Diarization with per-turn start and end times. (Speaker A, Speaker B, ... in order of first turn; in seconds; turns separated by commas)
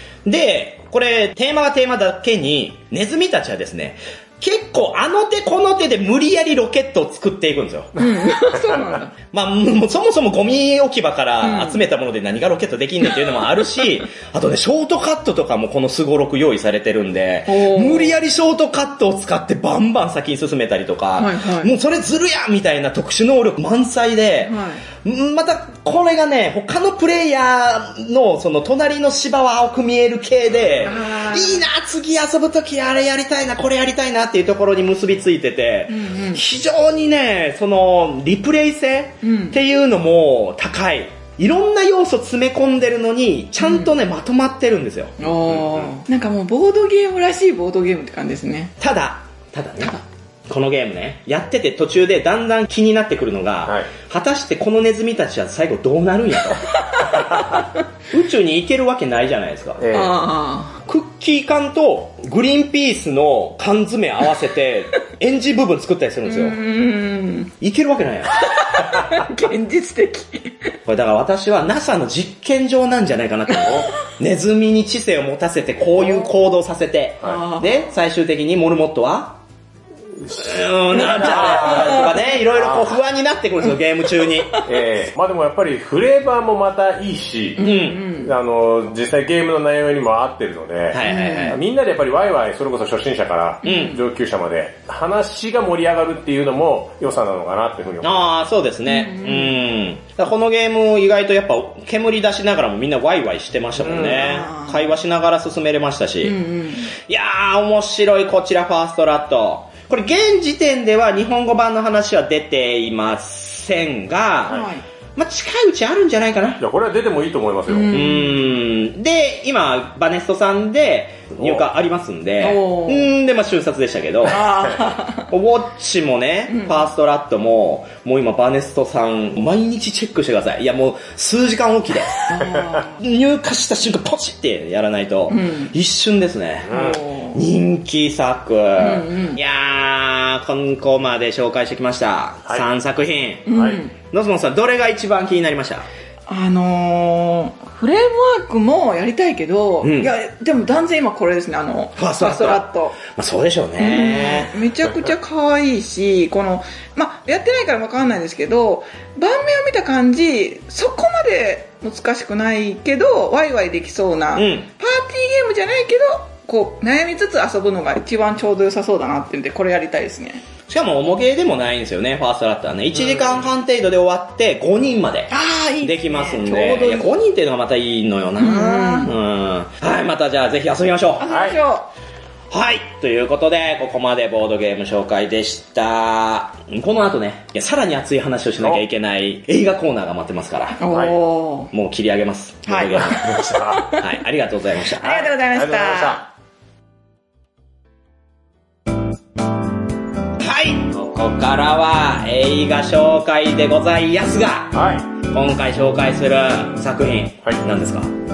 Speaker A: 0.2-8.0, Speaker B: 8.0-9.1, Speaker C: 8.5-8.9, Speaker A: 9.3-45.1, Speaker B: 11.4-11.8, Speaker B: 17.5-18.1, Speaker B: 21.2-21.7, Speaker B: 24.5-24.8, Speaker C: 30.5-30.9, Speaker B: 30.9-31.7, Speaker B: 35.9-36.4, Speaker B: 39.2-39.6, Speaker B: 43.6-44.0, Speaker B: 45.2-48.8, Speaker C: 45.5-45.9, Speaker A: 48.8-57.2, Speaker C: 53.6-53.9, Speaker A: 58.1-59.9, Speaker C: 59.8-60.1, Speaker B: 59.9-60.8, Speaker A: 60.9-66.6, Speaker B: 66.3-67.5, Speaker A: 67.6-68.5, Speaker B: 68.4-70.7, Speaker A: 70.9-79.4, Speaker B: 77.2-77.7, Speaker C: 80.2-83.0, Speaker A: 80.4-84.6, Speaker B: 81.0-82.2, Speaker C: 84.6-98.3, Speaker B: 87.6-88.3, Speaker A: 87.6-88.0, Speaker A: 90.9-91.6, Speaker B: 91.0-91.6, Speaker B: 93.6-94.0, Speaker A: 93.7-94.0, Speaker A: 98.0-106.4, Speaker B: 98.9-99.6, Speaker C: 103.8-104.3, Speaker B: 104.1-104.9, Speaker B: 106.2-106.9, Speaker A: 107.0-114.6, Speaker B: 114.5-114.8, Speaker A: 115.2-116.6, Speaker C: 116.6-118.0, Speaker B: 117.7-118.4, Speaker A: 117.9-124.5, Speaker C: 121.4-121.7, Speaker B: 122.4-123.1, Speaker B: 124.3-125.3, Speaker C: 124.5-124.8, Speaker A: 125.3-132.3, Speaker B: 126.5-126.9, Speaker B: 132.3-133.0, Speaker A: 132.8-143.5, Speaker B: 135.3-135.7, Speaker C: 136.7-137.0, Speaker B: 136.7-137.4, Speaker B: 138.8-139.4, Speaker B: 143.5-143.9, Speaker C: 143.5-143.8, Speaker A: 144.0-145.9, Speaker B: 146.3-153.0, Speaker A: 149.8-150.1, Speaker A: 152.0-154.6, Speaker B: 153.8-170.4, Speaker A: 164.3-164.7, Speaker A: 170.7-181.2, Speaker C: 172.9-173.5, Speaker B: 175.3-177.1, Speaker B: 178.4-179.1, Speaker B: 181.2-181.9, Speaker C: 181.3-181.6, Speaker A: 182.5-190.8, Speaker B: 190.8-191.7, Speaker C: 190.9-191.2, Speaker A: 191.7-195.3, Speaker B: 192.7-194.1, Speaker C: 192.9-193.9, Speaker B: 194.9-196.2, Speaker C: 195.4-196.3, Speaker A: 200.4-208.1, Speaker C: 204.7-205.1